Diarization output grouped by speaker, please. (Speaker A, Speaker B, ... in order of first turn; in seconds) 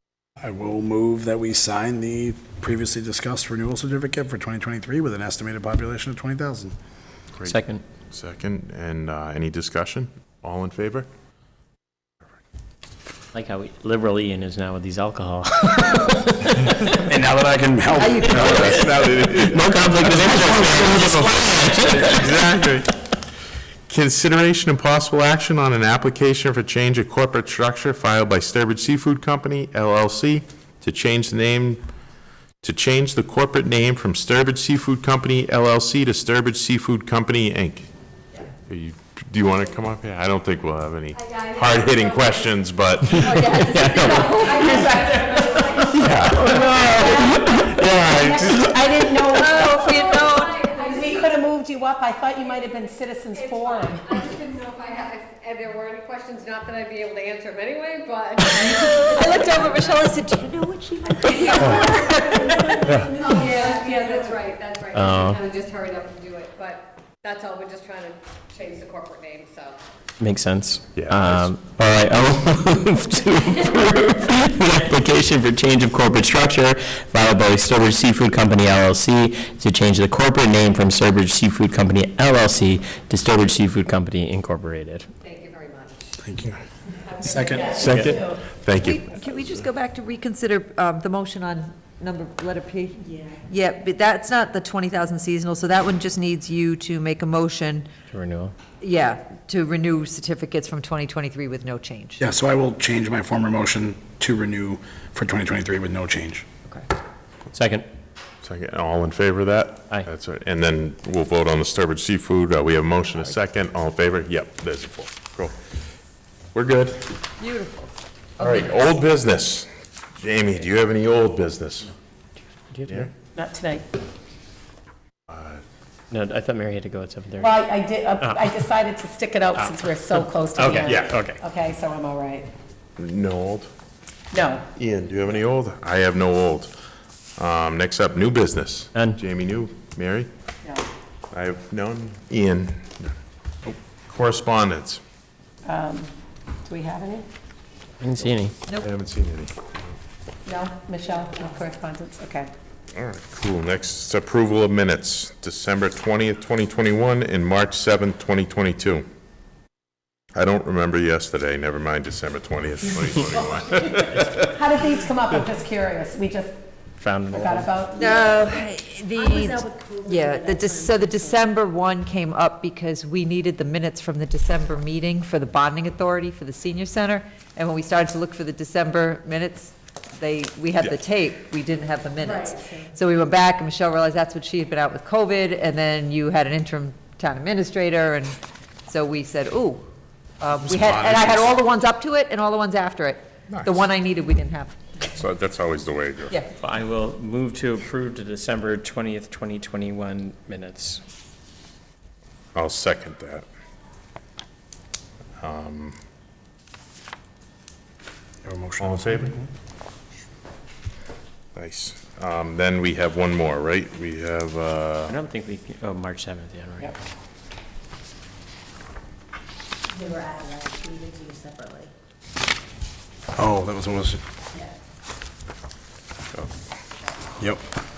Speaker A: 0.4-6.8, 17.0-19.4, 20.1-21.2, 86.2-86.6, 87.2-88.1, 102.2-106.5, 190.7-191.5, 208.4-209.5, 223.3-224.2
Speaker B: 7.5-7.8, 13.3-16.9, 19.4-22.1, 43.6-44.9, 45.9-48.8, 64.9-65.4, 70.2-85.1, 87.8-88.2, 98.1-98.5, 107.5-107.8, 122.7-123.1, 126.1-127.6, 128.2-128.5, 129.6-131.4, 148.0-148.6, 167.0-167.7, 196.6-201.0, 215.1-216.9
Speaker C: 8.1-11.1, 18.2-22.9, 23.9-31.8, 32.6-37.9, 38.7-43.7, 46.0-48.7, 71.0-71.5, 87.8-89.0, 108.4-115.6, 116.5-117.2, 118.4-121.9, 125.3-125.6, 130.8-131.2, 133.0-133.7, 134.8-136.7, 137.4-140.3, 141.3-143.1, 144.1-145.0, 148.8-149.5, 152.9-159.1, 160.3-164.5, 193.5-193.8, 195.1-196.4, 202.6-203.5, 205.4-206.0, 208.8-209.4, 211.6-215.2
Speaker D: 18.0-18.9, 43.2-45.4, 46.7-47.4, 49.2-50.7, 58.5-63.2, 88.8-97.9, 98.8-102.2, 117.4-118.7, 167.9-189.8, 190.4-194.9
Speaker E: 41.1-42.7, 43.4-46.8, 49.5-51.3, 53.3-60.0, 63.2-69.8, 85.2-86.2, 87.0-87.9, 182.2-182.6
Speaker F: 48.1-49.9, 50.7-54.1, 123.3-123.9, 127.4-132.5, 134.3-134.7, 145.7-146.1, 146.6-147.3, 150.5-152.5, 164.5-166.6, 167.3-168.1
Speaker G: 62.1-64.0, 169.2-171.0, 219.9-221.9